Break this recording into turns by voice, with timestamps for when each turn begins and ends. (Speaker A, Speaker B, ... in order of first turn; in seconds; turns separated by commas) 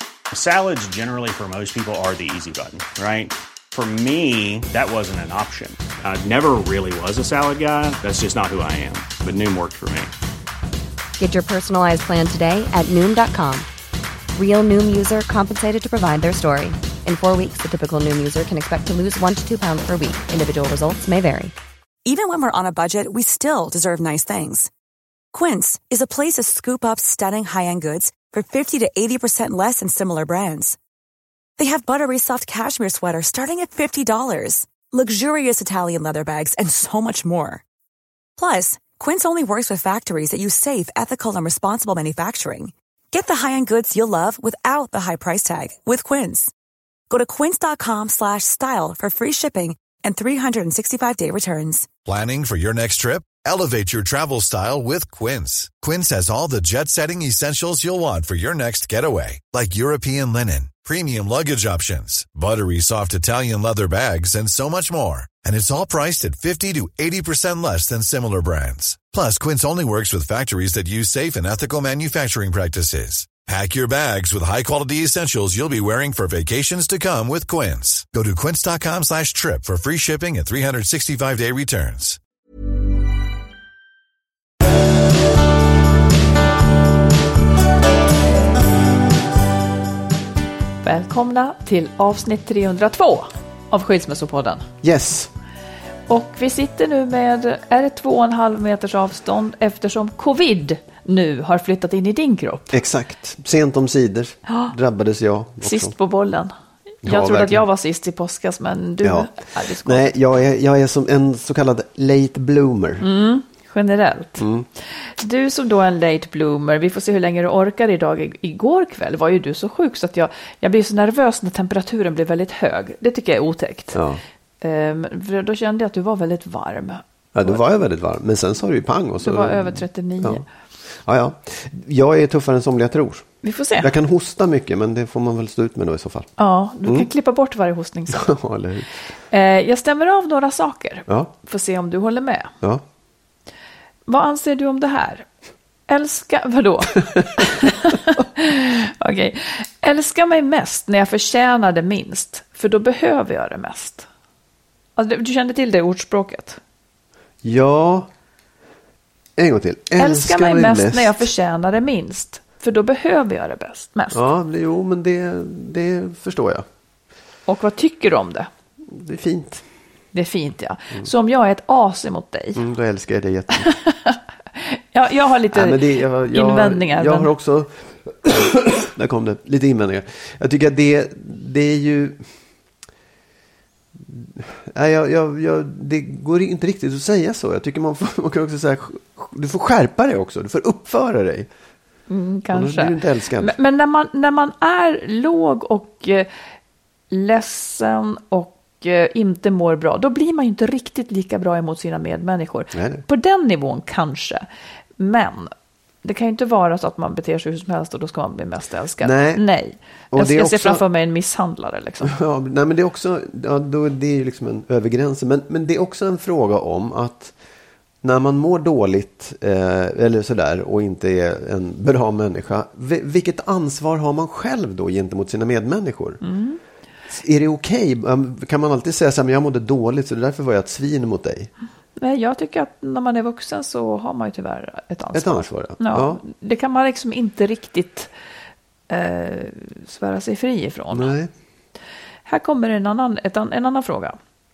Speaker A: 0.3-10.1, Speaker B: 11.2-13.7, Speaker B: 14.3-21.5, Speaker C: 22.1-24.7, Speaker C: 25.3-30.8, Speaker C: 31.6-37.6, Speaker C: 38.4-46.5, Speaker C: 47.1-51.9, Speaker D: 52.1-82.2, Speaker E: 90.8-94.7, Speaker F: 94.8-95.3, Speaker E: 96.1-102.8, Speaker F: 102.7-105.9, Speaker E: 104.5-104.7, Speaker E: 105.6-106.5, Speaker E: 107.0-110.1, Speaker F: 107.0-107.6, Speaker F: 109.0-109.3, Speaker F: 109.8-113.0, Speaker E: 113.0-124.0, Speaker F: 114.4-114.7, Speaker F: 123.9-124.2, Speaker E: 124.6-127.6, Speaker F: 127.3-130.4, Speaker E: 129.2-130.5, Speaker F: 131.0-136.3, Speaker E: 133.4-133.9, Speaker E: 136.4-138.3, Speaker F: 136.8-137.1, Speaker F: 138.1-138.9, Speaker E: 139.3-142.5, Speaker E: 144.1-145.3, Speaker E: 145.9-154.1, Speaker E: 155.0-156.6, Speaker F: 157.4-158.1, Speaker F: 159.4-161.3, Speaker E: 160.0-164.2, Speaker F: 164.1-166.7, Speaker E: 167.5-168.5, Speaker F: 168.9-169.6, Speaker E: 170.1-172.6, Speaker F: 172.6-173.7, Speaker E: 173.6-177.3, Speaker F: 175.5-182.3, Speaker F: 184.0-191.5, Speaker E: 192.1-196.3, Speaker F: 192.5-193.6, Speaker E: 197.1-204.4, Speaker F: 202.7-203.0, Speaker E: 205.0-205.5, Speaker E: 206.0-212.2, Speaker F: 209.0-209.5, Speaker F: 210.1-210.8, Speaker F: 212.0-217.3, Speaker F: 218.0-226.2, Speaker E: 226.2-226.6, Speaker F: 227.1-231.5, Speaker E: 232.0-238.1, Speaker F: 235.1-236.2, Speaker E: 238.9-241.1, Speaker F: 240.9-241.3, Speaker E: 242.3-244.2